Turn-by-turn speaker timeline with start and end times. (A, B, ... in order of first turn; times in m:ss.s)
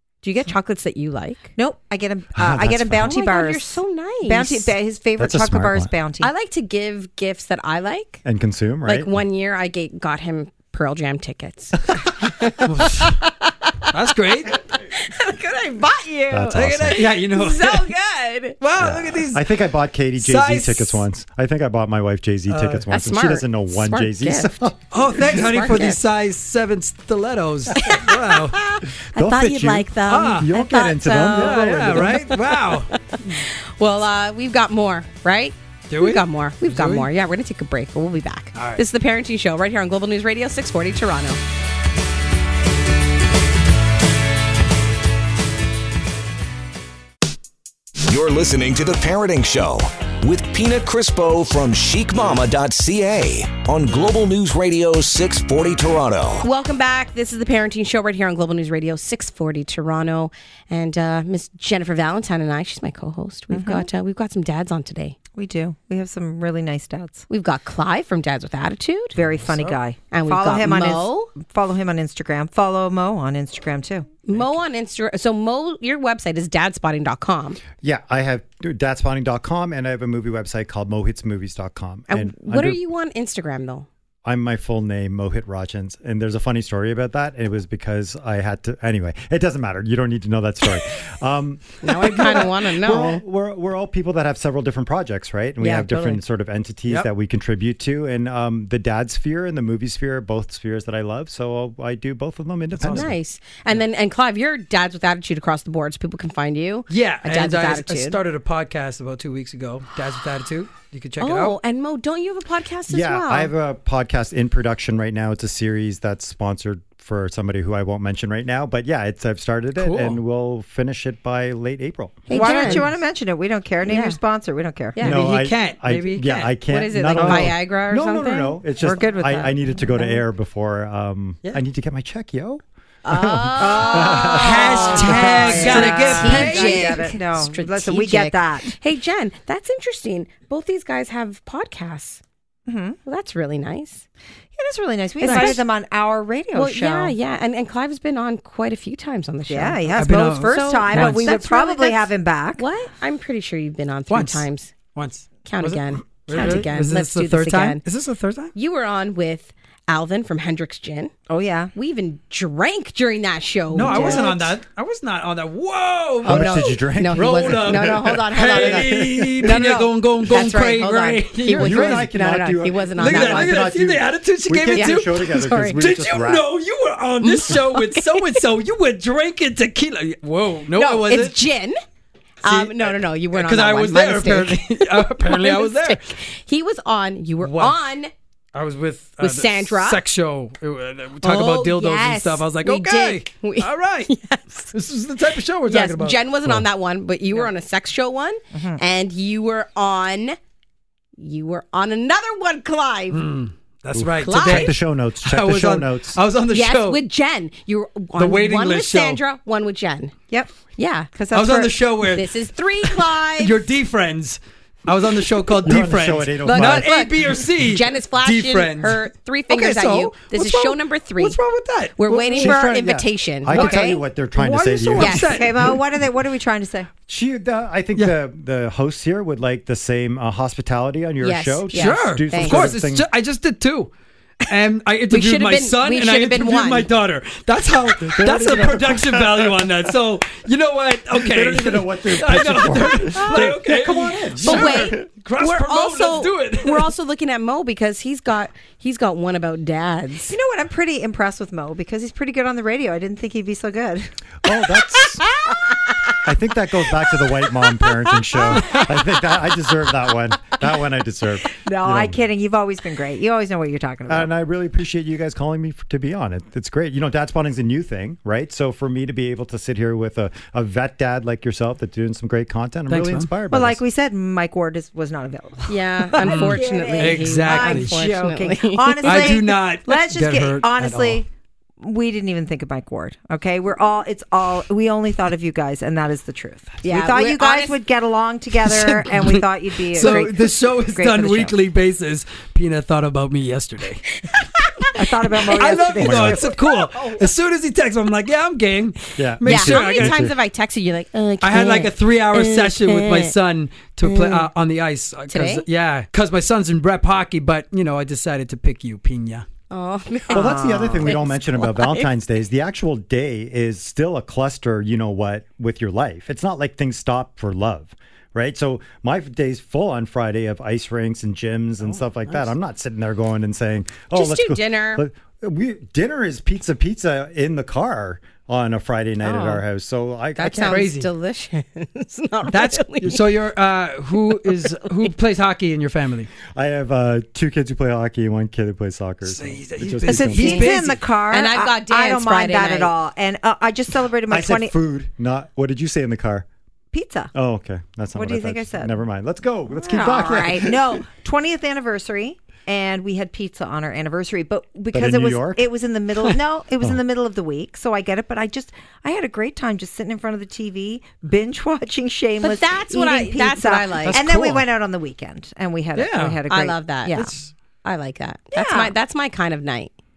0:00.2-0:01.5 A
0:01.6-0:06.3 B
0:02.3-0:03.1 C
0:03.0-0:04.7 A
0:05.2-0:05.9 C
0:06.2-0:08.2 A
0:08.2-0:09.1 C
0:08.8-0:13.3 A
0:12.6-0:13.2 D
0:13.9-0:14.6 D
0:14.7-0:18.6 A
0:16.3-0:17.1 C
0:16.5-0:17.9 D
0:18.6-0:19.5 D
0:18.8-0:24.8 C
0:20.2-0:21.0 D
0:22.5-0:22.8 D
0:22.9-0:24.6 A
0:24.9-0:28.6 D
0:25.2-0:26.0 A
0:27.7-0:41.4 A
0:29.1-0:32.3 C
0:30.1-0:30.5 D
0:31.2-0:33.4 D
0:35.9-0:37.1 D
0:38.5-0:38.8 D
0:48.0-0:56.5 E
0:56.4-1:05.2 A
1:03.5-1:03.9 B
1:05.4-1:07.2 B
1:07.3-1:09.1 A
1:09.1-1:09.8 C
1:09.1-1:14.2 B
1:10.0-1:11.3 A
1:14.2-1:17.6 A
1:17.8-1:22.8 C
1:22.1-1:23.9 A
1:24.2-1:43.2 C
1:31.8-1:33.2 A
1:35.6-1:36.2 A
1:42.8-1:43.1 D
1:42.9-1:48.2 A
1:46.9-1:51.6 D
1:51.2-1:53.5 A
1:52.9-2:02.2 C
1:59.8-2:00.2 D
2:02.3-2:02.9 A
2:02.3-2:05.0 B
2:02.3-2:02.9 D
2:03.8-2:04.2 A
2:05.0-2:06.6 D
2:05.0-2:15.8 C
2:06.6-2:09.1 A
2:07.1-2:07.5 D
2:08.9-2:10.2 B
2:13.0-2:22.2 A
2:13.6-2:18.7 B
2:14.0-2:17.0 D
2:22.7-2:23.0 B
2:23.0-2:24.0 A
2:24.6-2:27.1 B
2:25.2-2:25.6 A
2:25.2-2:25.6 D
2:26.5-2:34.8 A
2:29.5-2:32.6 B
2:30.0-2:31.4 D
2:34.1-2:38.5 D
2:35.4-2:37.8 A
2:38.5-2:41.1 A
2:41.3-2:41.7 B
2:41.7-2:44.5 A
2:43.7-2:52.1 D
2:43.8-2:44.4 B
2:46.2-2:53.7 A
2:46.3-2:49.6 C
2:50.3-2:50.8 B
2:51.5-2:56.4 C
2:53.0-3:01.4 D
2:54.7-2:55.8 A
2:57.2-2:58.4 A
3:00.7-3:01.8 A
3:02.4-3:06.2 D
3:02.4-3:08.1 A
3:07.4-3:07.8 D
3:08.5-3:16.2 D
3:09.2-3:10.0 A
3:11.2-3:14.7 A
3:15.7-3:20.4 A
3:18.5-3:18.8 B
3:21.2-3:23.3 A
3:23.1-3:27.0 D
3:23.9-3:26.2 C
3:24.2-3:24.7 A
3:26.5-3:30.1 A
3:28.2-3:29.2 D
3:30.3-3:30.6 B
3:30.7-3:31.1 A
3:31.1-3:31.9 B
3:31.3-3:42.7 D
3:32.1-3:33.7 A
3:35.6-3:36.9 C
3:36.4-3:41.4 A
3:42.0-3:44.0 A
3:42.3-3:45.3 C
3:43.5-3:45.7 D
3:43.5-3:43.9 B
3:45.0-3:45.4 A
3:45.2-3:46.9 B
3:47.1-3:53.1 C
3:51.2-3:52.7 A
3:51.7-3:53.9 D
3:54.5-4:06.9 D
3:55.1-3:56.9 A
3:58.0-3:59.7 C
4:01.1-4:05.0 C
4:04.4-4:10.3 A
4:10.3-4:14.1 B
4:14.4-4:15.2 C
4:16.2-4:22.2 C
4:18.4-4:18.8 B
4:21.5-4:24.3 B
4:24.1-4:33.8 C
4:32.9-4:33.3 D
4:33.5-4:41.3 B
4:35.7-4:39.4 A
4:36.2-4:37.9 D
4:39.0-4:41.2 D
4:41.8-4:51.6 B
4:46.8-4:47.8 A
4:49.1-4:54.2 D
4:50.0-4:50.2 A
4:54.2-4:55.0 A
4:54.9-4:56.6 B
4:55.3-5:00.3 D
4:56.0-4:56.4 C
4:59.2-5:00.3 C
4:59.4-5:03.3 A
5:01.4-5:09.4 D
5:04.0-5:04.5 A
5:05.3-5:05.6 A
5:09.7-5:12.0 A
5:10.3-5:11.2 B
5:10.3-5:30.9 C
5:24.1-5:25.0 A
5:29.2-5:29.6 A
5:30.4-5:33.3 A
5:30.5-5:31.1 D
5:32.5-5:36.3 D
5:36.5-5:40.8 C
5:39.2-5:41.0 D
5:40.0-5:44.7 B
5:40.4-5:42.9 A
5:44.3-5:46.4 C
5:46.9-5:47.3 B
5:47.3-5:50.8 C
5:48.1-5:49.0 B
5:49.8-6:07.3 B
5:54.9-5:55.7 C
6:02.4-6:04.2 A
6:04.0-6:04.7 D
6:05.9-6:06.4 D
6:06.4-6:07.3 A
6:07.1-6:07.5 D
6:07.8-6:09.9 A
6:08.5-6:08.9 B